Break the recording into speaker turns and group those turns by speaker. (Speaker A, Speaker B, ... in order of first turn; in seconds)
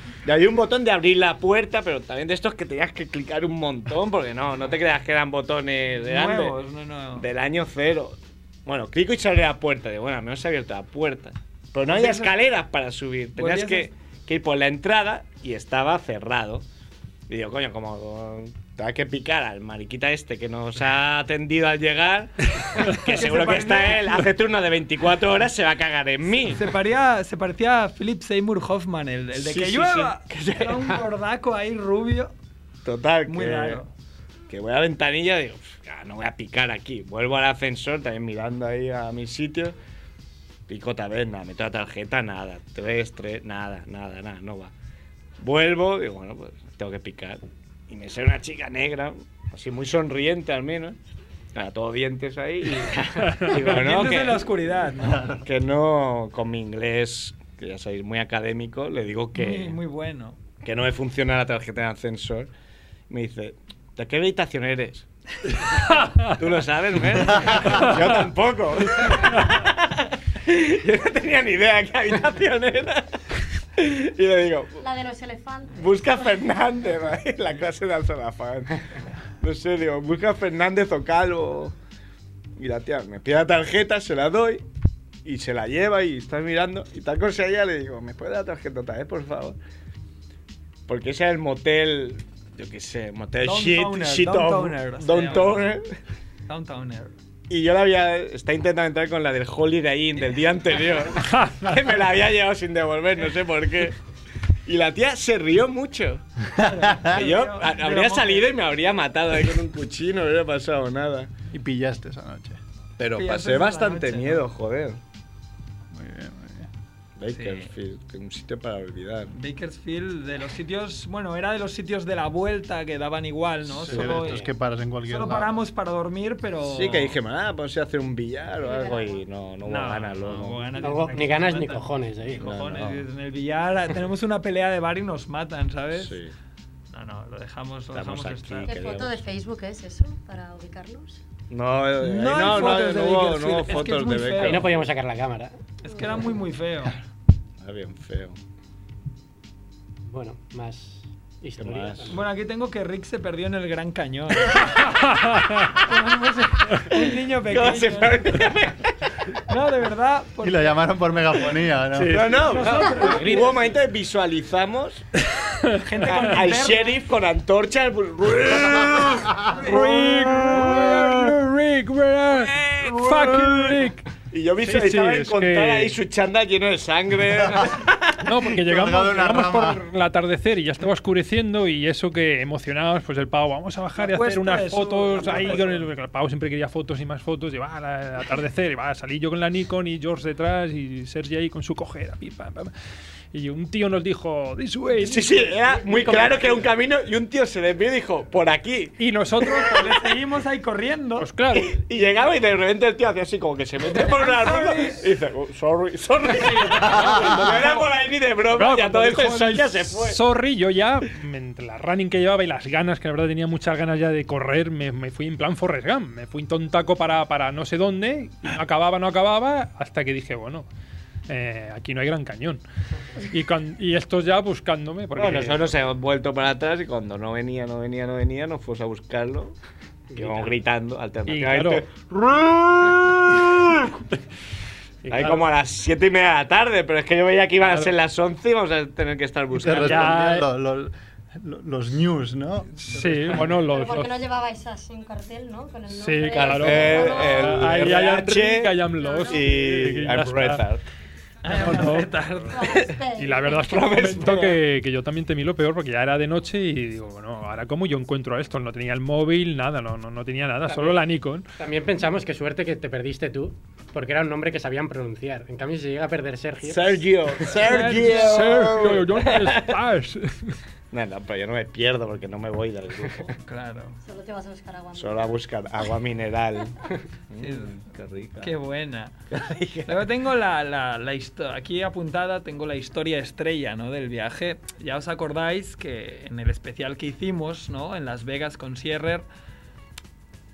Speaker A: 0.2-6.6, 7.2-16.6, 17.3-26.6, 29.4-31.0, 32.8-33.8, 34.5-39.7, 40.7-44.7, 45.4-51.0, 51.5-54.5, 55.4-59.8, 60.6-62.5, 63.1-73.1, 73.8-74.8, 75.7-78.8, 79.4-81.7, 82.6-84.6, 85.2-89.6, 90.9-95.9, 97.5-104.0, 104.7-106.2, 107.0-111.3, 113.0-115.0, 117.2-119.3, 126.6-130.9, 132.4-133.0, 135.9-136.3, 137.9-139.2, 141.5-144.7, 147.6-148.3, 151.6-152.2, 156.9-159.3, 162.0-165.1, 166.1-171.3, 172.3-178.3, 195.0-199.7, 201.5-210.2, 225.2-229.5, 230.1-234.0, 235.1-240.4, 246.3-250.8, 253.6-254.6, 266.7-269.8, 270.9-273.3, 274.9-276.7, 277.3-278.6, 279.3-280.0
Speaker B: 6.0-7.2, 11.9-12.3, 13.4-13.9, 23.1-24.3, 26.5-32.3, 33.3-33.9, 53.6-55.1, 59.4-60.4, 93.4-95.7, 96.5-97.1, 106.6-108.5, 113.1-114.4, 117.3-117.7, 119.3-124.5, 125.1-127.2, 129.6-136.2, 136.9-138.7, 142.0-144.7, 145.8-146.9, 152.1-155.0, 155.7-158.5, 159.4-160.7, 162.3-163.6, 165.8-167.0, 169.5-169.8, 184.0-185.8, 199.4-201.3, 204.0-205.0, 251.4-252.8, 267.4-268.7, 273.4-274.0, 277.4-277.7, 278.4-279.1, 279.9-289.2
Speaker C: 53.3-53.5, 65.9-66.3, 101.3-101.7, 155.0-155.6, 161.9-162.3, 169.6-174.1, 174.6-175.9, 178.2-192.7, 193.3-196.5, 199.0-199.7, 201.2-201.7, 206.9-207.9, 208.5-220.7, 221.3-222.6, 223.2-225.7, 231.3-231.9, 235.0-235.5, 237.6-237.9, 239.7-240.4, 242.8-244.2, 245.9-250.6, 251.5-252.1, 253.1-261.5, 267.7-270.6
Speaker D: 55.0-55.4, 111.5-112.6, 115.9-116.7, 123.7-125.5, 160.4-162.3, 178.5-179.8, 206.8-207.5, 239.5-242.8
Speaker E: 74.8-76.0, 128.6-129.2, 138.6-141.2, 243.4-247.9, 248.9-249.5, 252.5-253.7, 274.0-275.4
Speaker F: 123.9-124.5, 130.8-132.5, 144.4-145.5, 150.1-152.2, 162.6-163.6, 230.1-230.6, 260.6-261.0, 261.6-267.0